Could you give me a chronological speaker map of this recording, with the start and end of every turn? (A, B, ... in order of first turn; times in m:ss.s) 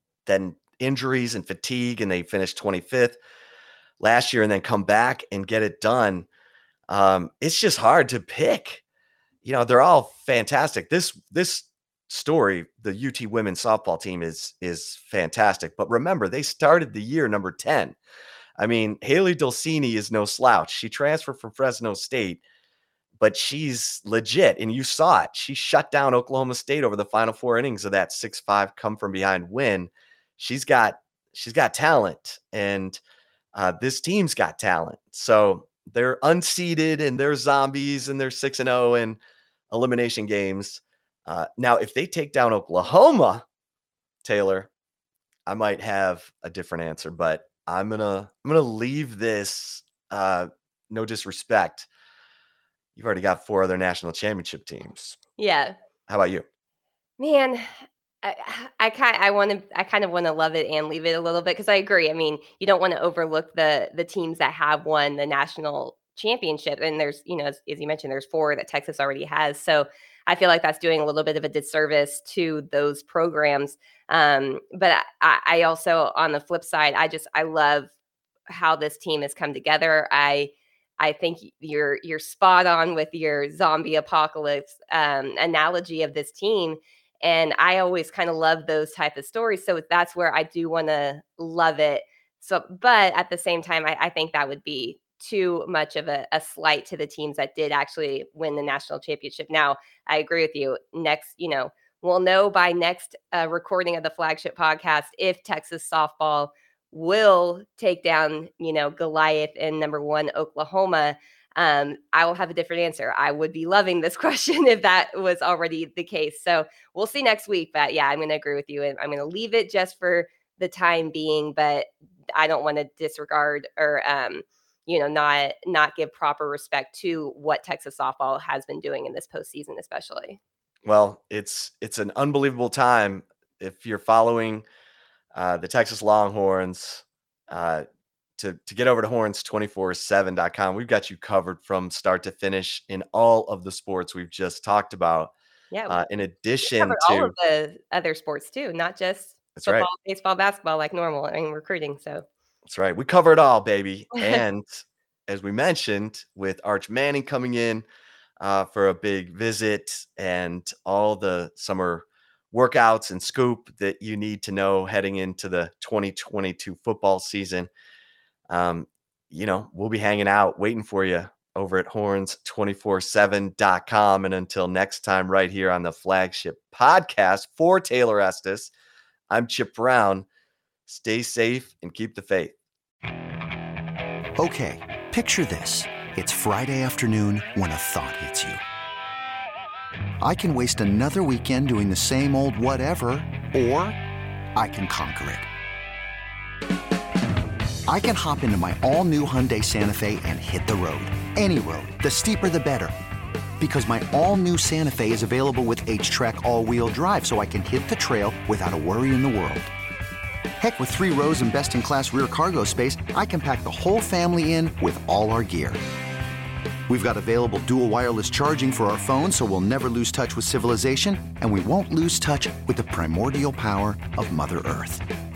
0:00.3-0:03.2 A
0:04.0-0:06.3 A
0:06.9-0:08.8 A
0:09.4-0:18.0 A
0:18.6-0:22.4 A
0:23.2-0:33.0 A
0:33.6-0:39.2 A
0:39.7-0:43.4 A
0:44.2-0:44.7 A
0:45.4-0:51.9 A
0:53.0-0:55.2 A
0:55.4-0:55.7 B
0:56.1-0:56.4 A
0:57.2-1:17.9 B
1:18.5-2:10.4 B
2:10.8-2:14.6 A
2:15.3-2:17.8 A
2:18.4-2:25.3 A
2:25.7-2:26.0 B
2:25.9-2:27.4 A
2:26.6-2:32.3 B
2:29.6-2:29.9 A
2:32.7-2:37.8 A
2:38.4-2:47.7 A
2:48.5-2:58.7 A
2:59.3-3:00.3 A
3:00.9-3:02.6 A
3:04.4-3:08.6 C
3:10.2-3:14.0 C
3:14.6-3:15.5 C
3:17.9-3:22.9 C
3:23.6-3:29.7 C
3:30.6-3:35.8 C
3:36.9-3:45.0 C